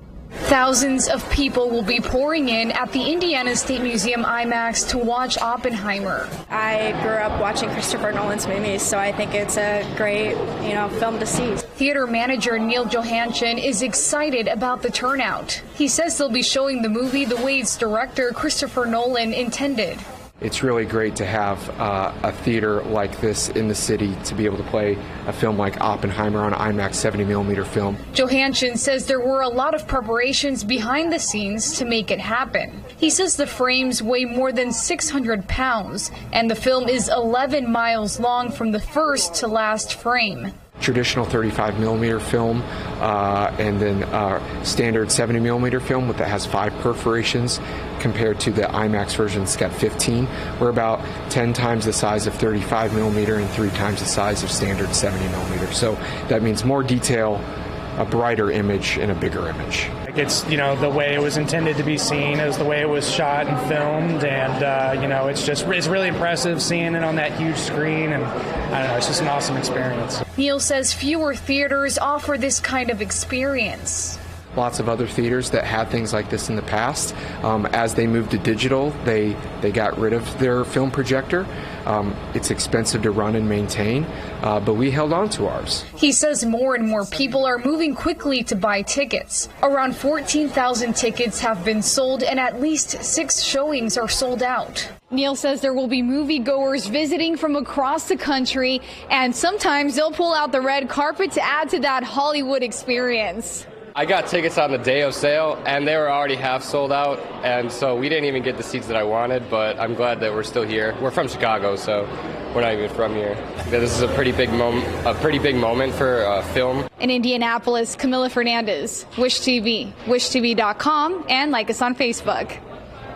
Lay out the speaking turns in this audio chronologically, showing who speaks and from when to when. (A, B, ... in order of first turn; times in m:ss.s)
0:00.4-0:06.3 A
0:06.5-0:11.6 B
0:11.8-0:20.0 A
0:20.4-0:28.0 C
0:28.1-0:40.5 A
0:40.8-0:57.4 C
0:58.0-0:59.9 C
1:00.1-1:10.2 D
1:10.4-1:14.2 A
1:14.5-1:25.9 C
1:25.9-1:43.6 A
1:44.0-1:56.8 E
1:57.0-2:02.6 A